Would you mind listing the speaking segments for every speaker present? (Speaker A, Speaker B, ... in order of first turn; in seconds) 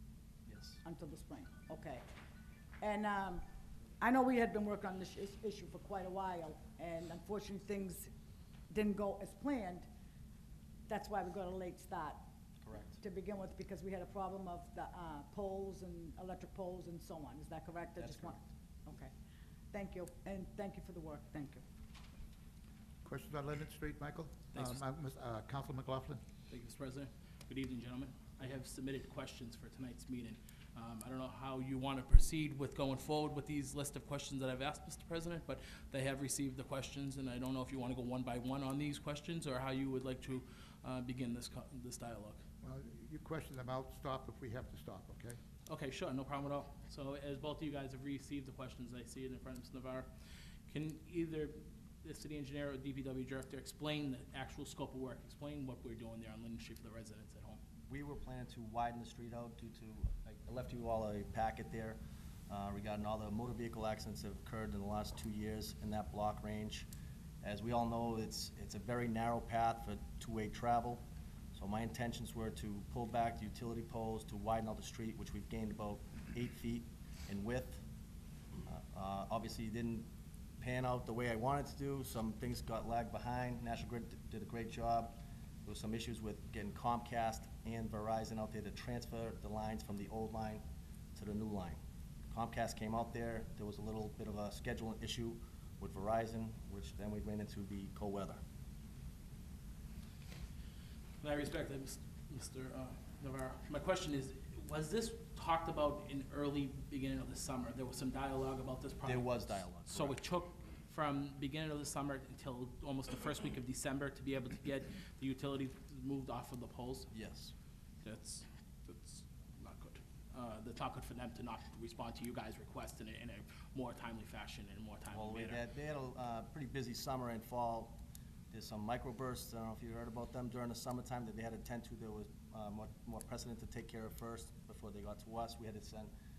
Speaker A: 0.5-0.8, 12.6-13.0, 18.0-18.5, 57.9-66.8, 67.4-71.0, 71.5-77.8, 78.7-80.1, 80.6-90.6, 91.2-91.8, 92.3-98.4, 109.0-110.2, 117.1-117.5, 125.1-128.0, 128.5-136.1
Speaker B: 0.8-2.0, 2.8-3.4, 4.0-8.1, 8.7-9.8, 10.9-12.2, 13.0-19.1, 19.7-21.6
Speaker C: 23.0-26.2, 42.6-45.4
Speaker D: 26.5-42.4, 45.7-50.1, 50.7-57.6, 101.2-117.1, 118.0-125.6